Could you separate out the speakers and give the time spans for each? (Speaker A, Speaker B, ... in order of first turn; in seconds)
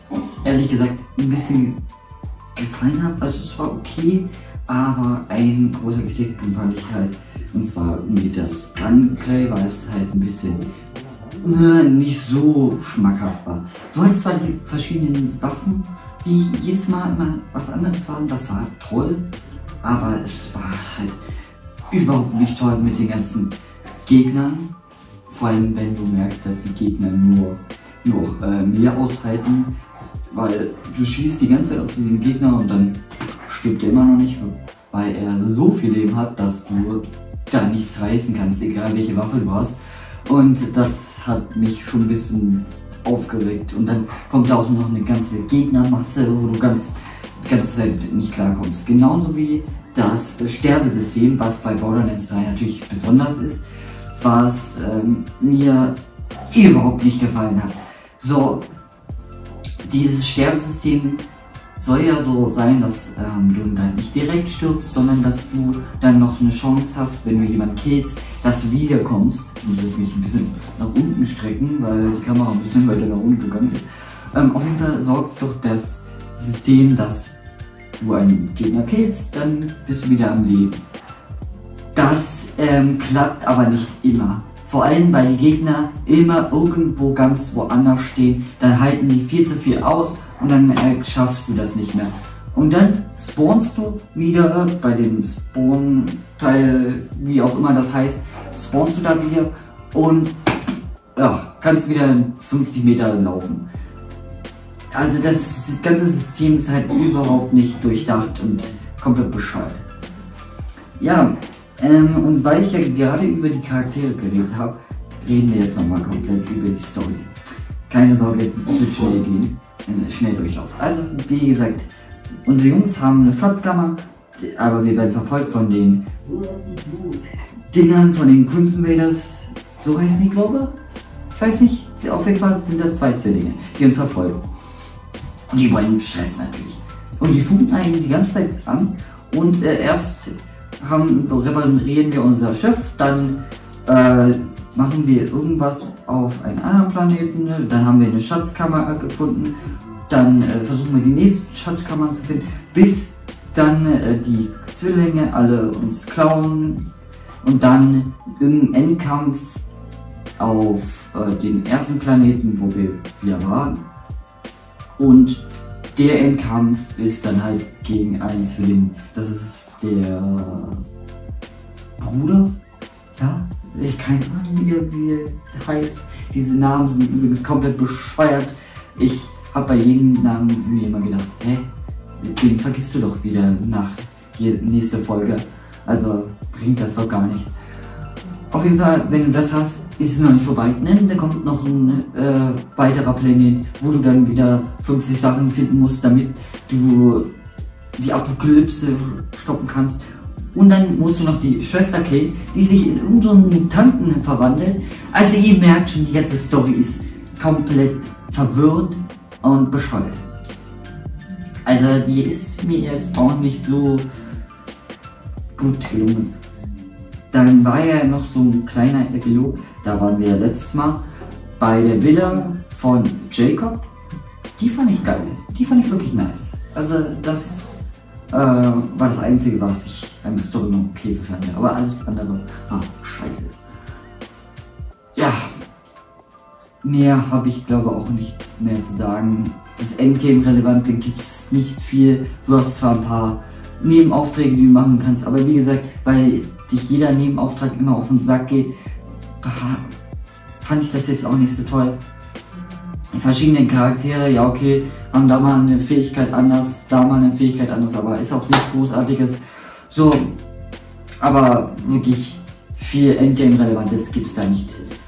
Speaker A: 0.4-1.8, 2.5-10.6, 11.4-19.3, 19.8-21.2, 21.9-23.5, 24.0-24.7, 25.3-29.7, 30.3-53.6, 54.1-55.9, 56.5-58.6, 59.8-61.2, 61.8-77.3, 78.0-80.8, 81.9-100.3, 101.2-103.6, 104.9-109.8, 111.0-117.3, 117.9-121.9, 122.4-126.1, 127.7-130.7, 131.3-134.4, 135.5-149.6, 150.1-156.9, 157.4-159.6, 160.4-163.8, 165.0-165.4, 165.9-170.8, 172.0-172.5, 173.2-181.7, 182.2-187.5, 188.5-197.3, 198.0-200.0, 200.5-210.2, 211.6-214.1, 215.5-216.3, 217.3-221.0, 221.6-223.9, 224.6-227.7, 228.3-233.5, 235.1-235.5, 236.8-248.7, 249.4-249.9, 250.6-252.0, 253.1-260.4, 261.2-264.8